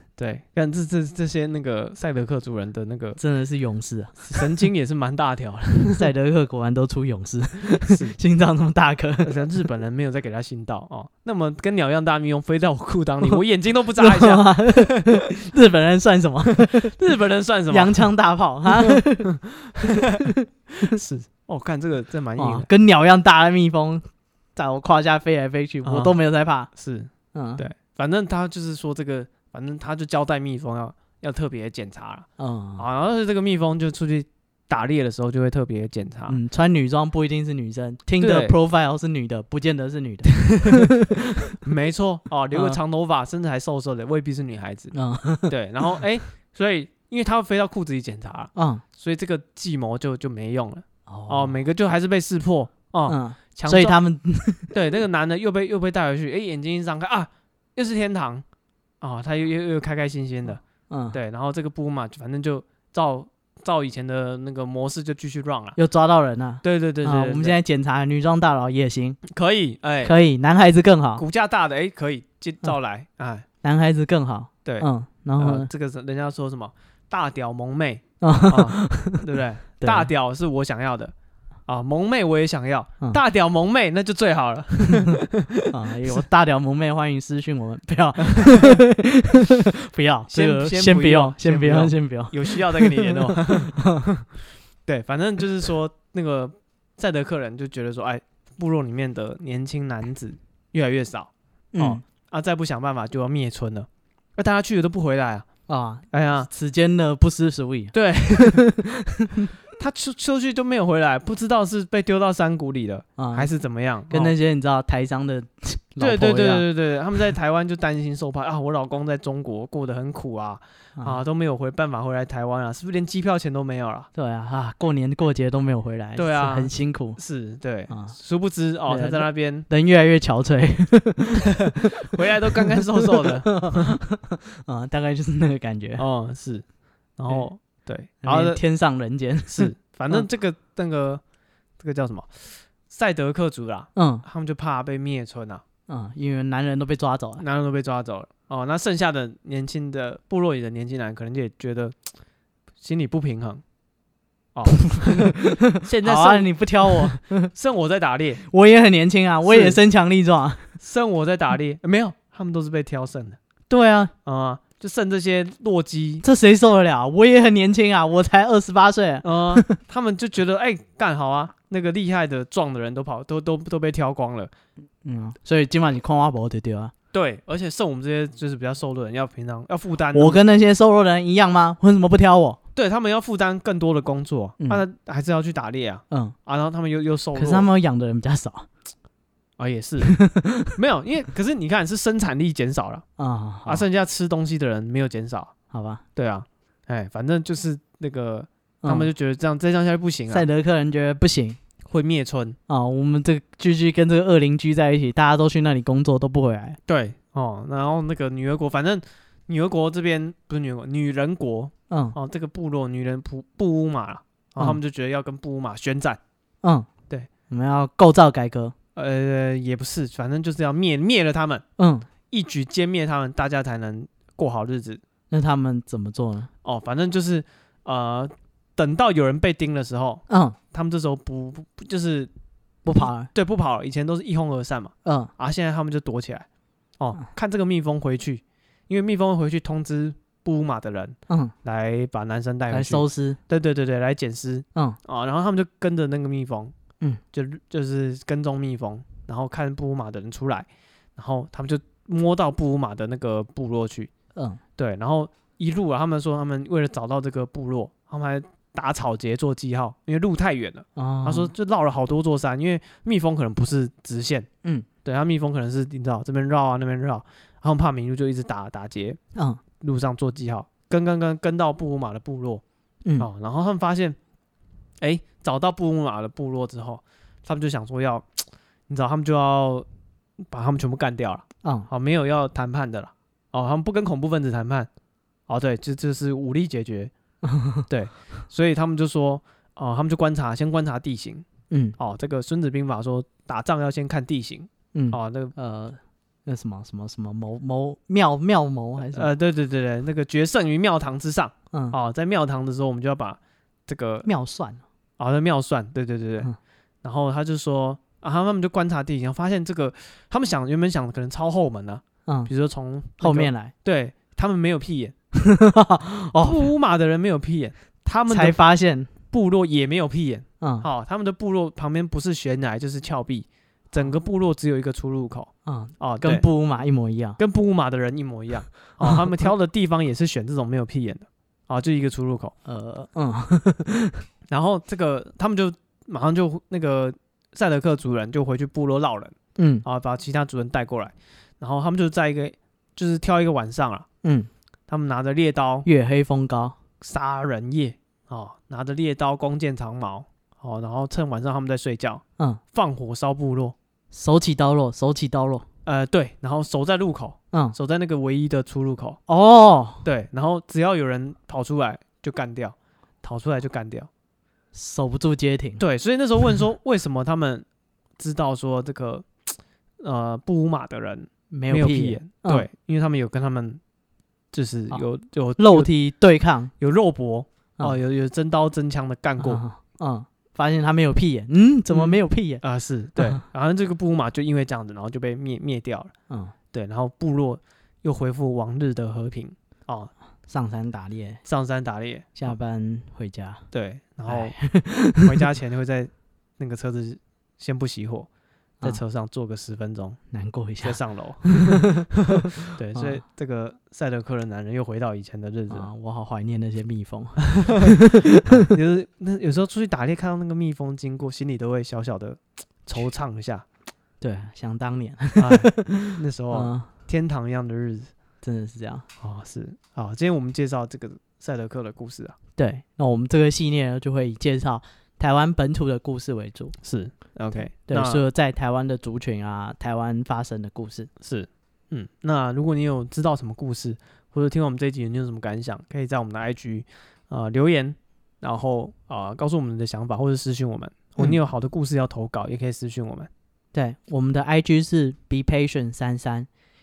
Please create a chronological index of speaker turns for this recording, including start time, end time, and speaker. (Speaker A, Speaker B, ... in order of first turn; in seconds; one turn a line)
Speaker A: 0.2-3.2
Speaker B: 3.2-4.6
Speaker A: 4.3-6.1
Speaker B: 5.9-9.4
Speaker A: 7.9-8.2
Speaker A: 9.2-15.1
Speaker B: 14.0-16.9
Speaker A: 16.7-18.1
Speaker B: 17.7-20.3
Speaker A: 20.8-22.7
Speaker B: 22.4-24.0
Speaker B: 24.6-26.7
Speaker A: 25.9-26.2
Speaker A: 26.7-36.4
Speaker B: 27.3-27.6
Speaker B: 32.4-32.9
Speaker B: 36.3-41.6
Speaker A: 38.2-38.5
Speaker A: 40.3-40.9
Speaker A: 41.6-54.0
Speaker B: 42.5-42.8
Speaker B: 44.9-46.0
Speaker B: 48.5-48.8
Speaker B: 51.1-51.6
Speaker B: 53.1-54.7
Speaker A: 54.7-58.5
Speaker A: 59.0-65.8
Speaker B: 60.9-61.2
Speaker B: 65.8-69.2
Speaker A: 66.6-67.6
Speaker A: 69.2-70.2
Speaker B: 70.0-71.2
Speaker A: 71.2-73.5
Speaker B: 73.6-75.7
Speaker A: 74.7-81.1
Speaker B: 78.2-79.2
Speaker B: 79.8-80.1
Speaker A: 81.7-86.2
Speaker B: 84.9-85.2
Speaker B: 85.7-94.1
Speaker A: 88.3-88.8
Speaker A: 90.3-94.3
Speaker A: 94.9-105.5
Speaker B: 101.7-102.0
Speaker B: 105.7-109.5
Speaker A: 106.1-106.5
Speaker A: 107.9-108.7
Speaker A: 109.8-114.3
Speaker B: 113.2-113.5
Speaker B: 114.1-116.7
Speaker A: 116.0-124.1
Speaker B: 124.2-127.2
Speaker A: 126.2-129.7
Speaker B: 127.9-128.2
Speaker B: 128.9-132.0
Speaker A: 132.0-133.9
Speaker B: 132.6-136.1
Speaker A: 136.0-136.7
Speaker A: 137.2-138.6
Speaker B: 138.2-140.2
Speaker A: 139.5-141.2
Speaker A: 141.8-145.6
Speaker B: 143.9-144.2
Speaker B: 145.9-147.4
Speaker A: 147.4-151.9
Speaker A: 152.8-153.6
Speaker A: 154.6-158.4
Speaker B: 154.8-157.5
Speaker B: 158.5-160.7
Speaker A: 159.4-159.8
Speaker A: 160.8-163.4
Speaker B: 163.7-164.1
Speaker A: 164.2-166.2
Speaker B: 166.2-169.8
Speaker A: 169.2-174.5
Speaker B: 175.0-176.9
Speaker A: 177.1-180.4
Speaker B: 180.1-182.6
Speaker A: 182.8-187.7
Speaker B: 187.4-188.7
Speaker A: 189.6-190.2
Speaker B: 190.0-190.8
Speaker A: 190.7-193.1
Speaker B: 193.2-193.8
Speaker A: 193.7-195.5
Speaker B: 195.7-196.0
Speaker A: 196.2-200.5
Speaker B: 198.8-199.1
Speaker B: 200.3-201.6
Speaker A: 201.9-202.6
Speaker B: 202.7-206.8
Speaker A: 206.9-216.2
Speaker B: 211.9-212.2
Speaker B: 216.6-216.9
Speaker B: 217.5-218.7
Speaker A: 218.9-221.7
Speaker B: 221.8-222.1
Speaker A: 222.3-225.0
Speaker B: 225.3-226.5
Speaker A: 226.6-232.3
Speaker B: 230.3-230.6
Speaker B: 232.8-233.3
Speaker A: 232.9-236.5
Speaker B: 235.1-235.3
Speaker A: 237.0-246.7
Speaker B: 241.3-241.5
Speaker B: 242.7-243.4
Speaker A: 247.3-254.1
Speaker B: 254.3-254.6
Speaker A: 254.8-264.5
Speaker B: 261.0-261.5
Speaker A: 265.1-269.2
Speaker B: 269.4-269.6
Speaker A: 269.8-272.6
Speaker A: 273.2-274.2
Speaker A: 275.0-279.9
Speaker A: 280.5-284.9
Speaker A: 285.5-287.1
Speaker B: 287.4-287.9
Speaker A: 287.9-291.5
Speaker B: 291.7-292.0
Speaker A: 292.0-295.5
Speaker B: 294.9-299.3
Speaker A: 299.1-304.3
Speaker B: 304.2-304.8
Speaker A: 305.2-306.5
Speaker A: 307.0-315.1
Speaker B: 313.2-313.7
Speaker B: 315.4-316.7
Speaker A: 316.4-318.6
Speaker B: 318.3-319.1
Speaker A: 319.3-326.5
Speaker B: 320.6-320.9
Speaker B: 325.6-327.4
Speaker A: 327.4-332.5
Speaker B: 332.6-334.2
Speaker A: 334.5-344.1
Speaker B: 339.6-339.9
Speaker B: 344.2-344.5
Speaker A: 344.9-345.9
Speaker B: 345.9-346.8
Speaker A: 347.0-353.8
Speaker B: 354.1-355.6
Speaker A: 355.9-359.2
Speaker B: 359.3-360.1
Speaker A: 360.1-364.1
Speaker B: 364.7-365.8
Speaker A: 365.8-367.6
Speaker A: 368.2-369.3
Speaker A: 370.0-373.8
Speaker B: 371.5-372.7
Speaker A: 374.5-375.9
Speaker B: 375.6-376.7
Speaker A: 376.8-379.6
Speaker B: 379.4-382.6
Speaker A: 381.9-386.1
Speaker B: 383.2-383.4
Speaker A: 386.7-390.1
Speaker B: 390.5-391.4
Speaker A: 391.4-392.5
Speaker B: 392.4-393.6
Speaker A: 393.7-394.6
Speaker B: 394.3-395.4
Speaker A: 395.1-398.3
Speaker A: 398.8-400.2
Speaker B: 400.3-401.9
Speaker A: 400.8-402.1
Speaker A: 402.7-405.9
Speaker B: 402.9-403.2
Speaker B: 405.7-408.7
Speaker A: 407.6-408.0
Speaker A: 408.5-413.6
Speaker B: 414.2-416.9
Speaker A: 415.4-418.1
Speaker B: 418.4-419.1
Speaker A: 419.2-422.4
Speaker B: 422.6-426.8
Speaker A: 426.8-428.2
Speaker B: 427.9-431.1
Speaker A: 431.2-443.3
Speaker B: 443.7-446.5